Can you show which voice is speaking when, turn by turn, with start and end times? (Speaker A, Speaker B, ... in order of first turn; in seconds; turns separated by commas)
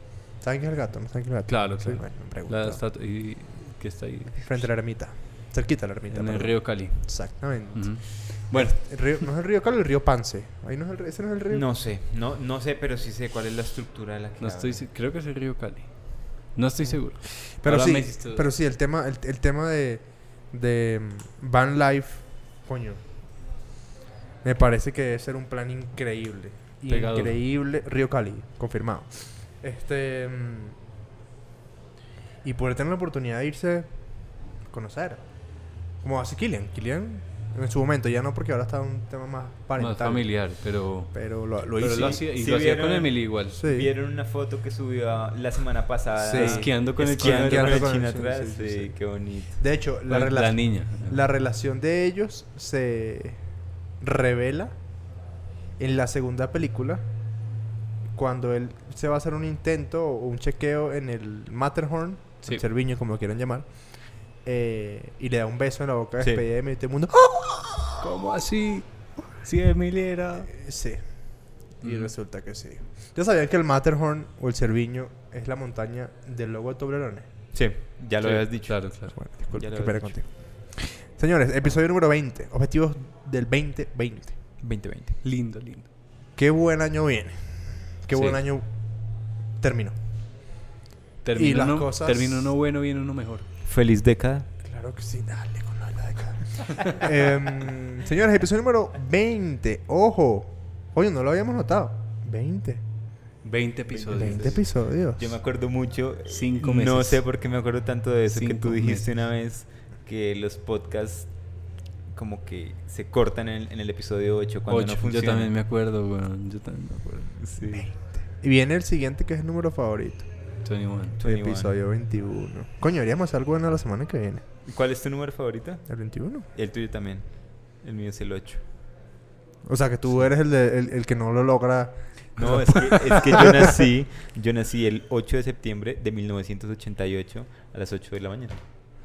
Speaker A: 0.4-2.8, Speaker B: 1.5-4.6, Speaker A: 4.4-11.6, Speaker B: 6.1-8.8, Speaker C: 11.5-14.8, Speaker B: 14.4-18.5, Speaker A: 17.6-23.0, Speaker A: 24.4-30.8, Speaker B: 26.9-27.4, Speaker A: 32.4-33.9, Speaker A: 34.7-35.2, Speaker A: 36.0-40.3, Speaker B: 39.8-41.1, Speaker A: 41.1-42.2, Speaker B: 41.8-43.6, Speaker C: 42.0-49.6, Speaker A: 43.5-43.9, Speaker A: 46.2-48.9, Speaker B: 46.3-47.9, Speaker A: 49.6-53.4, Speaker B: 50.1-51.2, Speaker A: 54.0-54.7, Speaker A: 55.8-57.0, Speaker A: 58.1-63.8, Speaker A: 64.4-68.0, Speaker B: 68.0-70.5, Speaker A: 70.5-71.0, Speaker A: 71.8-77.3, Speaker B: 71.8-72.1, Speaker C: 77.5-78.9, Speaker B: 78.2-79.1, Speaker A: 79.1-84.3, Speaker C: 79.5-80.2, Speaker C: 84.6-85.2, Speaker B: 85.2-85.9, Speaker A: 86.3-88.7, Speaker B: 88.1-88.4, Speaker A: 89.6-90.0, Speaker B: 91.2-93.5, Speaker A: 91.3-92.5, Speaker C: 93.6-94.5, Speaker A: 94.6-102.8, Speaker B: 103.4-104.5, Speaker C: 103.9-111.3, Speaker A: 104.1-105.4, Speaker B: 106.3-107.2, Speaker B: 108.3-109.1, Speaker C: 112.1-115.5, Speaker B: 114.7-117.4, Speaker C: 117.4-117.9, Speaker A: 117.7-120.3, Speaker B: 120.6-121.2, Speaker C: 121.2-121.8, Speaker A: 121.2-124.4, Speaker C: 124.7-125.9, Speaker A: 125.9-126.5, Speaker C: 126.5-127.3, Speaker C: 127.8-128.6, Speaker A: 129.7-132.6, Speaker C: 132.4-138.6, Speaker B: 132.8-133.2, Speaker A: 133.3-133.6